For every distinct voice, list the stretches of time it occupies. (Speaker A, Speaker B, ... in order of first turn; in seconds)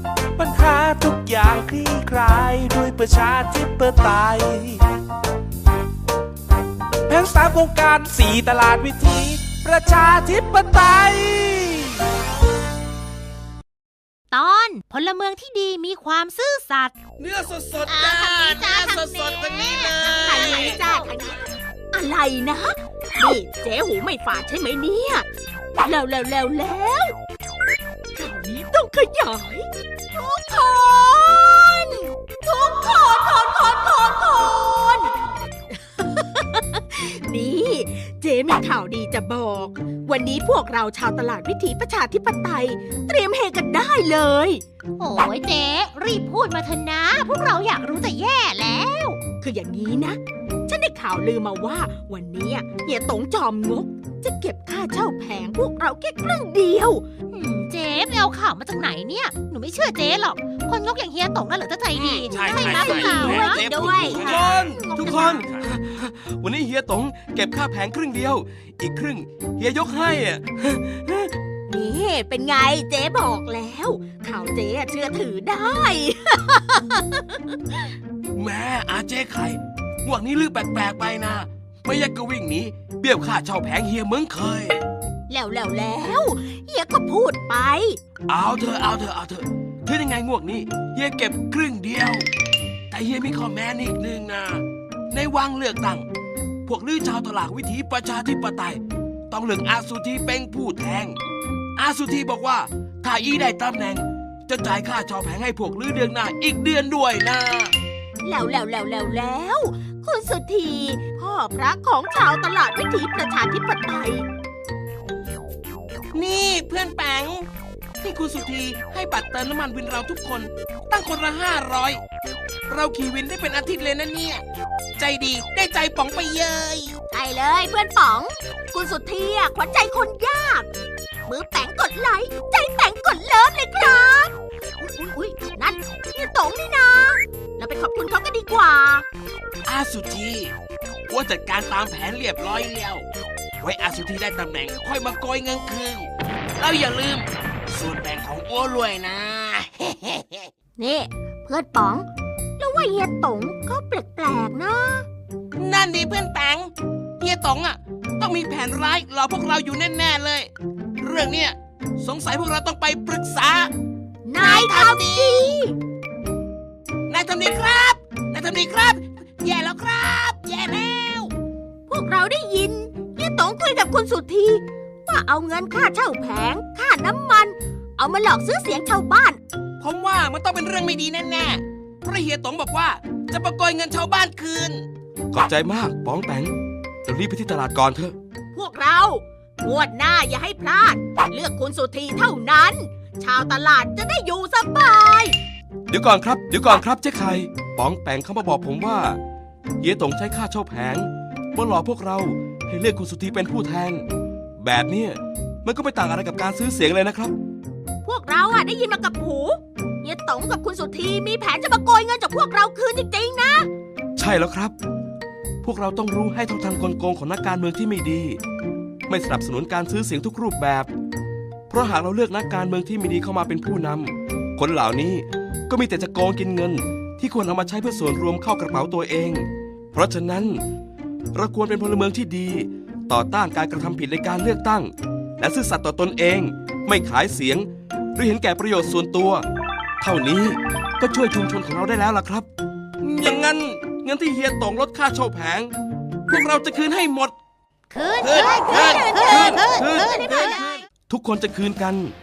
Speaker A: 0.3-4.8, 7.1-12.1
Speaker B: 14.3-16.9, 17.9-21.1, 45.0-48.8, 57.3-63.6, 247.9-250.7
Speaker C: 17.2-20.8, 62.0-65.6, 116.1-117.4, 118.0-121.9, 122.7-124.4, 125.0-126.9, 139.7-140.2, 141.1-142.9, 144.3-146.0, 146.6-150.2, 155.6-156.7, 157.2-160.5, 161.0-163.7, 164.4-165.6, 167.1-171.3, 179.8-184.8
Speaker D: 17.5-18.4, 62.4-71.3, 78.3-84.8, 88.3-92.2, 92.9-96.0, 96.7-98.8, 99.3-101.2, 101.8-107.7, 141.3-143.0, 143.8-144.8, 185.3-188.1, 195.9-199.2, 199.8-204.0, 204.6-207.3, 214.2-214.7, 215.6-218.4, 219.1-220.9, 221.7-230.6, 231.3-239.4, 240.0-242.5, 243.0-245.7, 246.3-247.3, 248.2-250.6, 251.1-252.1
Speaker E: 20.1-25.2, 25.8-27.2, 28.1-44.6, 48.7-57.0, 62.3-65.5, 71.7-77.5, 85.3-88.0, 108.2-114.2, 127.1-130.7, 131.3-139.1, 150.8-152.1, 152.6-155.1, 164.2-165.8, 171.9-179.4, 188.5-195.3, 208.0-213.7, 248.5-250.8